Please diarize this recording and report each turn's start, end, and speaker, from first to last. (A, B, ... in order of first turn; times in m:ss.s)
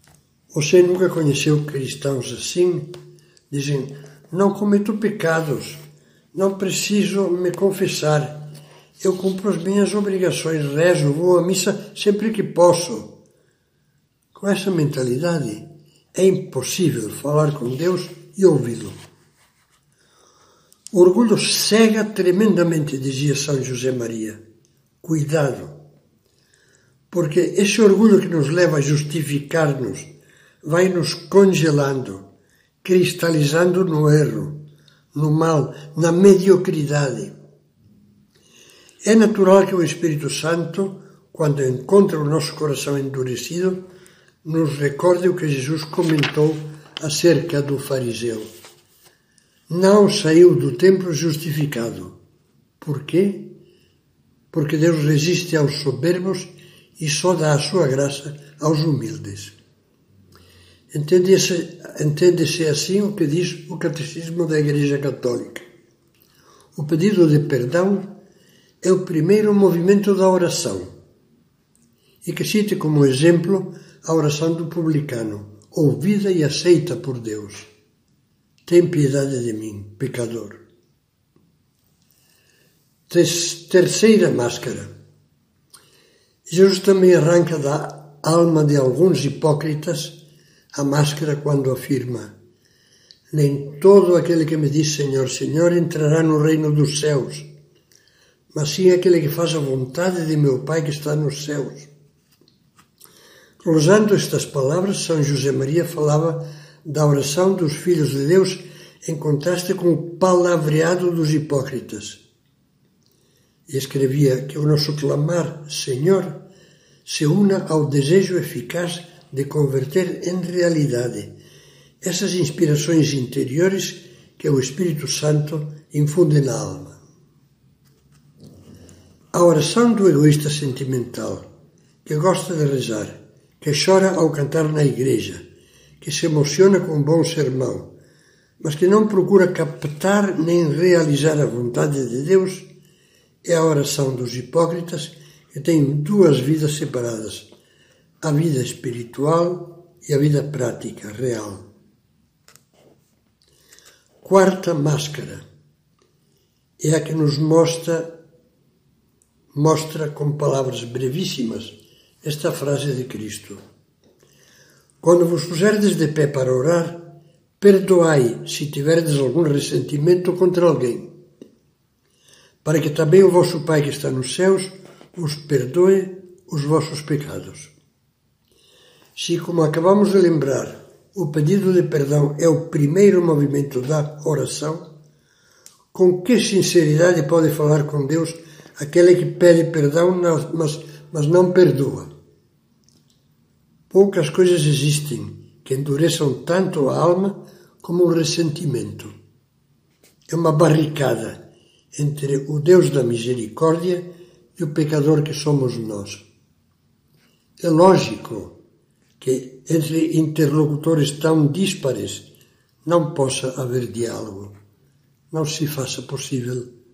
0:00.5-0:03.0 A
0:03.5-0:05.8 A
0:06.3-0:08.5 A
0:09.0-0:13.2 A
0:14.3-0:19.0 A
0:20.9-0:24.4 A
0:25.0-0:25.8 A
0:27.1-0:30.1 A
0:30.6-0:32.2 A
0:32.8-0:34.6 A
0:35.1-0:37.3 A
0:39.0-0:43.8 A
0:44.4-0:48.5 A
0:49.7-0:52.1 A
0:52.8-0:53.6 A
0:54.5-0:59.5 A
1:00.9-1:05.6 A
1:06.7-1:08.1 A
1:08.8-1:10.9 A
1:12.2-1:17.7 A
1:18.6-1:20.6 A
1:23.1-1:24.9 A
1:26.5-1:30.2 A
1:30.7-1:32.3 A
1:33.3-1:37.5 A
1:38.5-1:41.9 A
1:43.6-1:52.2 A
1:53.7-1:56.4 A
1:57.0-2:01.3 A
2:02.0-2:07.0 A
2:09.3-2:11.5 A
2:12.0-2:15.4 A
2:16.0-2:17.9 A
2:18.6-2:22.7 A
2:23.4-2:27.5 A
2:28.2-2:31.6 A
2:34.2-2:35.4 A
2:36.8-2:38.2 A
2:39.5-2:43.6 A
2:45.0-2:51.1 A
2:52.6-2:57.7 A
2:59.2-3:04.9 A
3:05.9-3:12.1 A
3:13.9-3:19.1 A
3:20.3-3:21.4 A
3:21.9-3:26.2 A
3:27.6-3:28.6 A
3:29.2-3:32.3 A
3:32.8-3:34.5 A
3:35.3-3:36.7 A